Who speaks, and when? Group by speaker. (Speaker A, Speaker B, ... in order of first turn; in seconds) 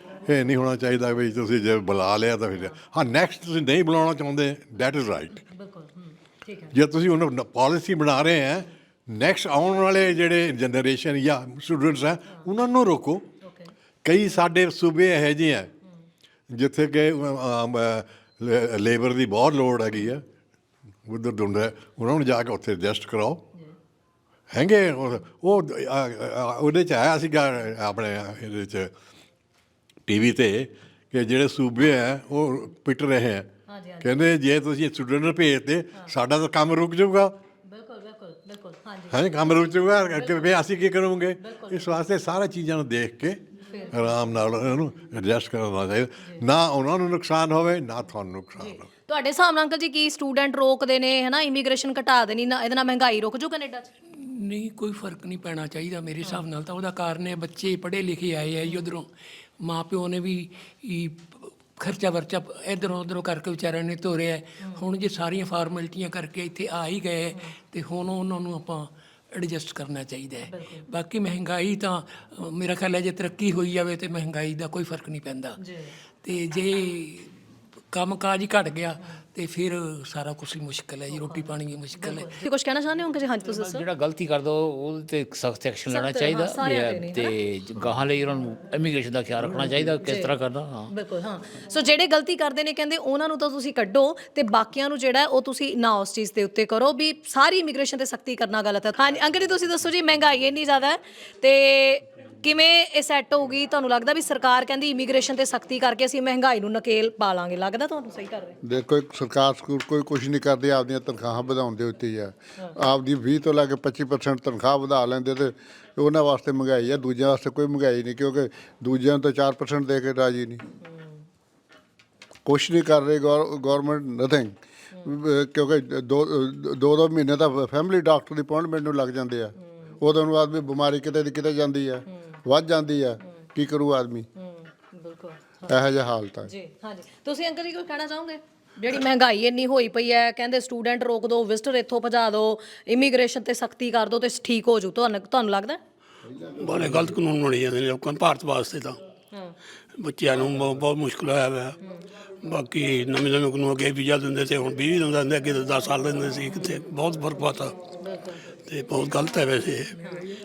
Speaker A: 0.3-5.4, 6.7-13.2, 14.0-15.7, 16.5-20.2, 21.1-23.4, 24.5-28.9, 30.1-33.5, 34.0-37.3, 39.1-43.4, 43.9-48.9
Speaker B: 5.5-6.7, 13.4-13.7, 33.7-34.2, 37.7-40.5, 41.4-41.8, 43.7-44.2, 48.6-53.9, 70.5-70.8, 75.6-75.9, 81.1-83.9, 85.9-87.3, 90.0-90.3, 90.9-108.6, 134.4-135.8, 136.4-145.8, 158.0-158.4
Speaker C: 54.1-59.1, 59.6-75.6, 76.2-77.3, 77.9-82.3
Speaker D: 83.6-90.9
Speaker E: 108.6-120.6, 122.5-134.3, 135.7-136.5
Speaker F: 146.6-149.0, 150.0-151.8, 152.5-157.7, 158.7-159.9